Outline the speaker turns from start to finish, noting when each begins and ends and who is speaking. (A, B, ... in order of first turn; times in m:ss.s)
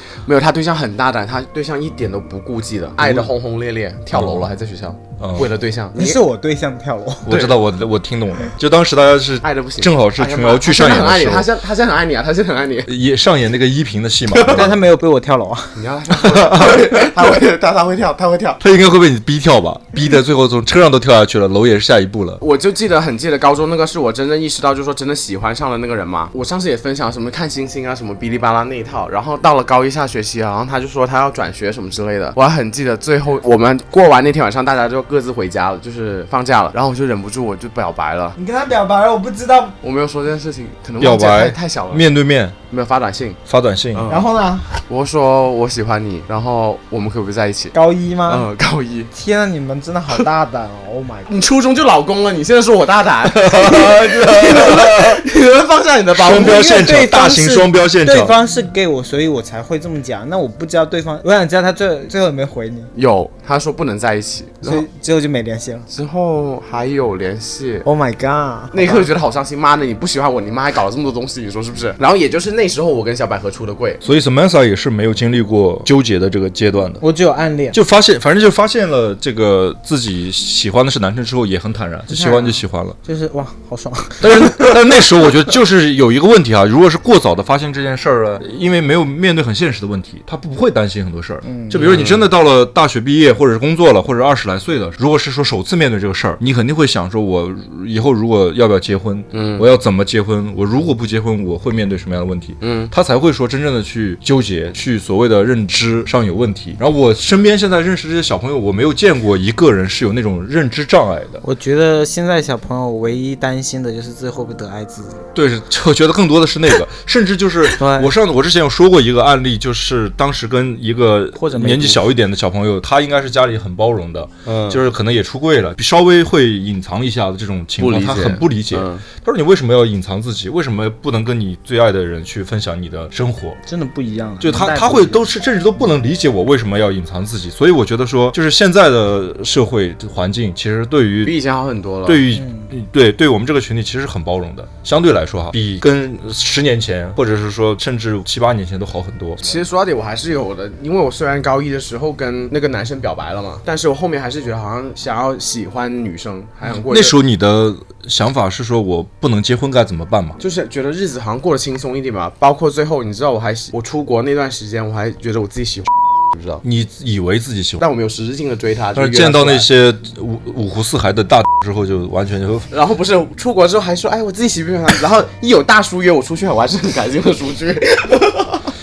0:00.3-0:06.2 A
0:03.0-0:03.3 B
0:04.1-0:04.5 B
0:05.2-0:05.5 B
0:06.0-0:07.3 C
0:07.2-0:11.5 B
0:07.3-0:07.5 A
0:09.4-0:12.9 A
0:12.9-0:14.8 B
0:14.3-0:14.8 A
0:14.5-0:15.8 C
0:15.8-0:18.6 A
0:16.2-0:17.1 B
0:18.6-0:22.4 B
0:22.4-0:38.4 A
0:38.4-0:39.8 C
0:39.8-0:42.0 A
0:41.0-0:42.6 B
0:42.7-0:43.4 A
0:43.5-0:44.1 B
0:43.9-0:44.3 A
0:44.1-0:44.7 C
0:44.8-0:47.7 A
0:47.7-0:48.5 C
0:48.3-0:49.1 A
0:49.1-0:51.3 C
0:51.3-0:56.7 A
0:53.2-0:55.2 B
0:56.2-0:58.4 B
0:56.4-1:02.9 C
1:03.0-1:04.8 A
1:04.6-1:05.9 C
1:05.9-1:07.9 A
1:07.8-1:09.1 C
1:08.7-1:14.0 A
1:14.0-1:17.0 B
1:17.0-1:17.8 C
1:17.7-1:23.0 B
1:22.1-1:24.8 C
1:24.2-1:51.4 B
1:31.4-1:31.9 C
1:31.7-1:32.3 A
1:39.3-1:39.6 A
1:42.6-1:42.9 A
1:51.4-1:55.2 C
1:55.4-2:13.6 B
1:57.8-1:58.1 C
2:01.4-2:02.1 C
2:04.5-2:04.8 A
2:07.8-2:09.0 A
2:13.7-2:15.2 C
2:14.4-2:21.4 B
2:21.2-2:22.3 A
2:22.1-2:29.6 B
2:22.3-2:22.7 C
2:29.4-2:37.2 A
2:36.9-2:40.4 B
2:40.4-2:46.6 A
2:46.6-2:47.8 B
2:47.8-2:49.7 A
2:49.0-2:52.7 B
2:52.7-2:58.6 A